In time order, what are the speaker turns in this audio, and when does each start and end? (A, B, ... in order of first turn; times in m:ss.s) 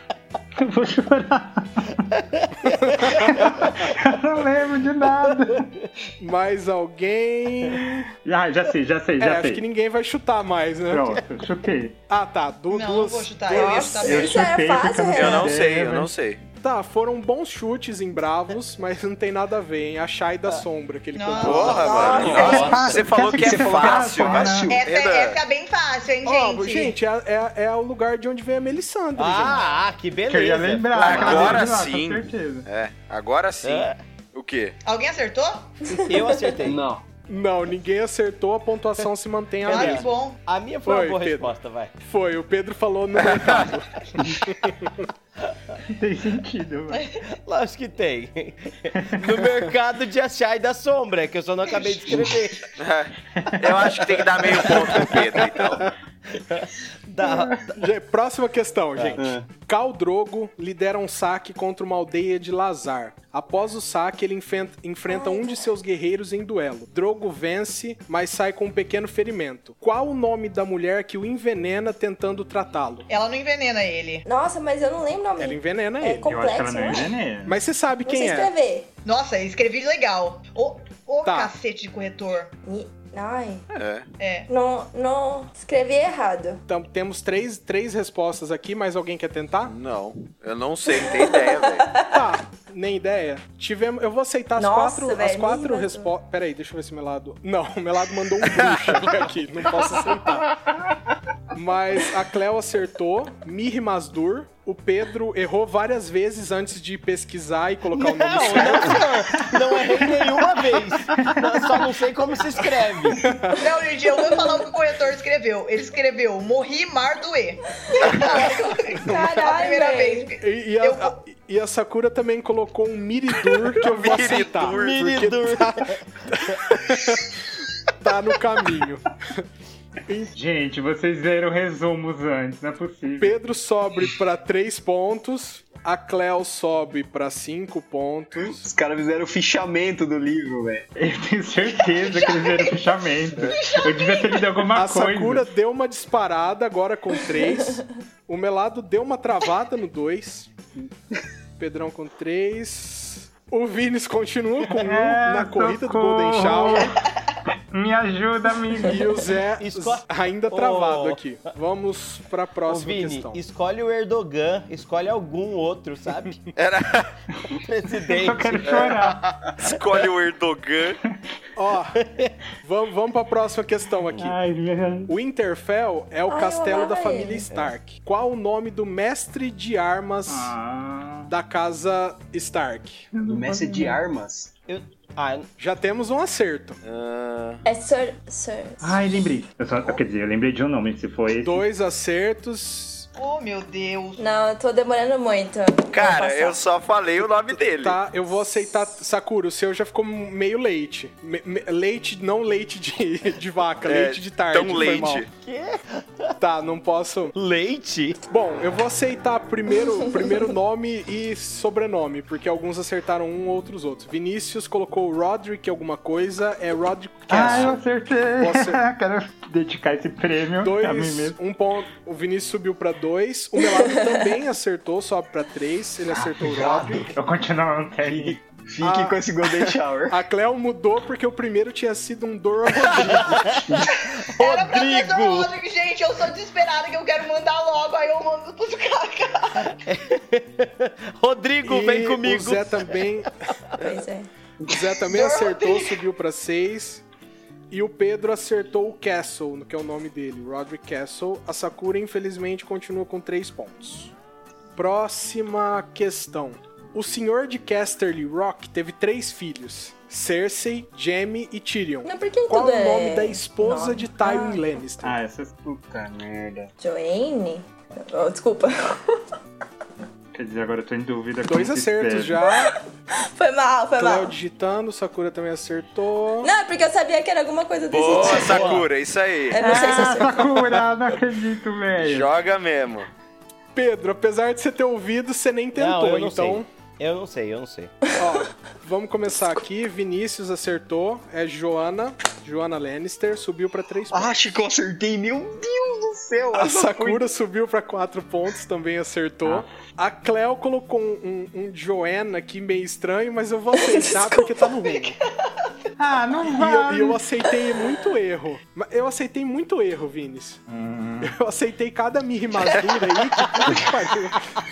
0:00.6-0:02.1 A
0:02.1-0:03.9 B
0:02.9-0:03.1 C
0:03.1-0:05.7 A
0:05.3-0:05.8 B
0:06.2-0:08.1 C
0:08.2-0:09.6 A
0:09.2-0:11.2 C
0:10.9-0:12.0 A
0:12.1-0:13.8 C
0:12.7-0:14.5 D
0:13.5-0:15.5 E
0:14.0-0:16.1 A
0:15.1-0:16.4 F
0:16.6-0:22.7 C
0:21.1-0:22.0 D
0:21.4-0:25.4 F
0:21.6-0:22.7 E
0:22.2-0:22.7 B
0:22.2-0:24.8 A
0:22.3-0:24.8 G
0:24.7-0:27.0 D
0:26.2-0:29.6 C
0:29.2-0:31.6 B
0:30.3-0:32.6 A
0:31.0-0:34.7 F
0:31.2-0:31.6 G
0:33.6-0:34.0 B
0:34.8-0:35.8 D
0:35.9-0:36.6 E
0:36.0-0:36.8 B
0:36.6-0:37.0 G
0:37.3-0:40.1 C
0:39.6-0:40.4 D
0:39.6-0:41.9 B
0:40.8-0:45.1 C
0:43.2-0:43.7 F
0:45.5-0:45.7 B
0:45.9-0:47.1 A
0:47.4-0:52.6 B
0:48.9-0:49.4 A
0:52.0-0:52.4 G
0:52.8-0:55.9 F
0:53.8-0:55.3 B
0:56.3-0:57.6 B
0:57.6-1:13.1 C
0:59.0-0:59.2 B
0:59.2-0:59.4 G
1:05.1-1:05.6 E
1:13.1-1:14.2 D
1:14.3-1:17.2 E
1:15.4-1:16.3 C
1:16.3-1:17.6 A
1:17.4-1:18.5 C
1:18.0-1:18.9 E
1:19.0-1:22.5 D
1:21.2-1:21.5 C
1:22.6-1:23.6 E
1:23.7-1:24.1 F
1:24.2-1:24.5 D
1:24.5-1:26.6 E
1:26.7-1:29.7 C
1:29.7-1:31.9 F
1:30.9-1:32.1 E
1:32.0-1:40.5 C
1:34.6-1:36.1 E
1:38.4-1:39.1 F
1:41.5-1:49.6 C
1:47.9-1:53.2 B
1:53.2-1:53.6 C
1:53.5-2:01.2 D
1:54.3-1:54.5 E
1:59.0-1:59.5 C
1:59.1-2:00.3 E
2:00.4-2:07.4 C
2:03.5-2:05.0 F
2:04.7-2:06.6 B
2:08.0-2:09.4 C
2:10.0-2:10.3 C
2:10.3-2:13.3 A
2:13.2-2:18.7 C
2:18.4-2:20.8 G
2:21.0-2:25.5 A
2:21.8-2:23.0 D
2:23.5-2:24.4 D
2:24.7-2:30.5 C
2:31.6-2:37.0 C
2:34.7-2:36.9 A
2:37.7-2:39.2 A
2:38.8-2:43.4 C
2:39.6-2:41.2 B
2:42.7-2:46.4 B
2:46.5-2:47.1 F
2:47.6-2:48.8 B
2:48.0-2:49.2 A
2:48.7-2:51.0 F
2:51.6-2:52.0 C
2:52.0-2:52.3 B
2:52.6-2:54.4 C
2:54.1-2:55.1 A
2:55.1-3:00.5 C
2:56.3-2:57.5 E
3:00.3-3:01.3 A
3:01.3-3:03.1 C
3:03.2-3:04.0 A
3:03.2-3:04.5 G
3:04.7-3:05.5 B
3:05.6-3:06.8 C
3:06.8-3:07.6 F
3:07.6-3:09.0 E
3:08.8-3:11.6 A
3:11.4-3:13.1 C
3:13.2-3:14.2 D
3:14.2-3:16.6 E
3:15.9-3:18.0 F
3:17.5-3:25.2 C
3:23.8-3:25.3 F
3:25.4-3:26.3 B
3:26.4-3:27.3 C
3:27.3-3:28.2 B
3:28.3-3:37.8 C
3:37.3-3:41.4 A
3:37.3-3:37.7 B
3:38.4-3:38.8 C
3:40.6-3:47.1 C
3:43.7-3:44.2 E
3:46.4-3:47.1 G
3:47.1-3:48.4 A
3:48.0-3:50.2 G
3:48.8-3:53.6 C
3:53.1-3:55.5 B
3:54.2-3:59.8 D
3:59.7-4:03.0 B
4:01.6-4:03.3 C
4:03.8-4:04.3 E
4:04.6-4:07.0 C
4:05.1-4:06.0 D
4:07.7-4:14.1 C
4:14.8-4:25.2 C
4:22.0-4:24.7 E
4:25.0-4:25.5 A
4:25.6-4:26.7 G
4:26.8-4:29.2 E
4:30.3-4:32.4 A
4:31.4-4:32.7 C
4:32.5-4:32.8 E
4:33.3-4:34.3 E
4:34.0-4:36.5 C
4:36.4-4:38.8 E
4:37.9-4:39.6 F
4:38.2-4:38.9 B
4:39.5-4:40.7 E
4:39.5-4:42.3 A
4:42.0-4:43.1 F
4:43.7-4:46.6 C
4:45.7-4:47.9 B
4:48.2-4:48.4 E
4:48.2-4:54.3 C
4:54.1-4:57.2 G
4:56.5-5:05.1 C
5:03.8-5:04.4 E
5:06.0-5:07.2 A
5:06.5-5:10.6 C
5:10.7-5:11.3 A
5:11.2-5:14.5 C